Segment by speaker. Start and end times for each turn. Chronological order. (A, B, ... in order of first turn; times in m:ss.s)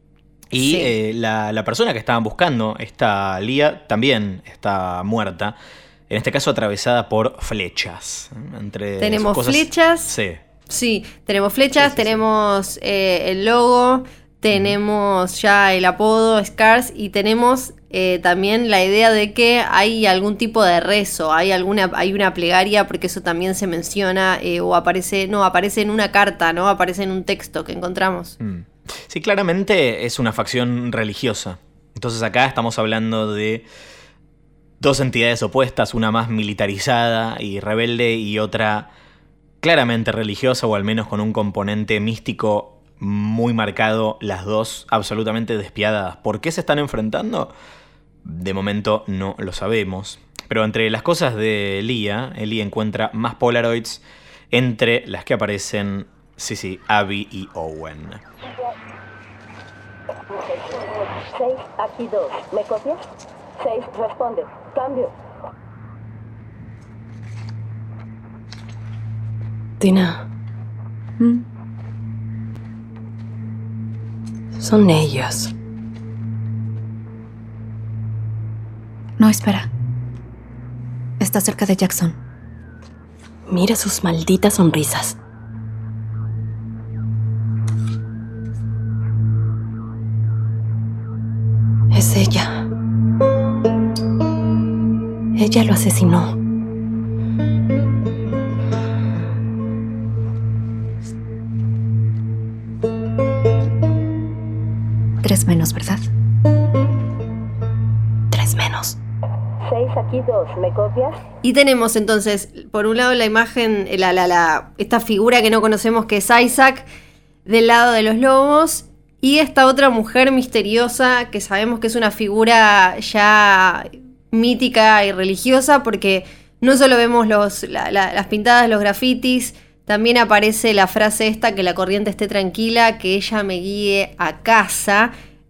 0:00.5-0:05.6 A
0:00.6-0:00.9 B
0:06.1-0:10.4 A
0:09.0-0:10.2 B
0:10.7-0:28.4 B
0:11.8-0:12.2 A
0:28.4-0:33.7 A
0:34.8-0:38.9 A
0:39.6-0:47.5 A
0:48.2-0:58.2 A
0:58.5-0:58.7 C
1:00.3-1:03.0 C
1:03.6-1:05.1 C
1:09.8-1:10.2 D
1:11.2-1:11.4 E
1:14.6-1:15.5 D
1:19.2-1:19.7 E
1:21.2-1:22.2 E
1:23.5-1:25.2 D
1:31.9-1:32.6 D
1:35.4-1:36.3 D
1:45.2-1:46.1 E
1:48.3-1:49.0 E
1:49.6-1:51.2 C
1:51.4-1:56.8 B
1:57.5-2:15.1 B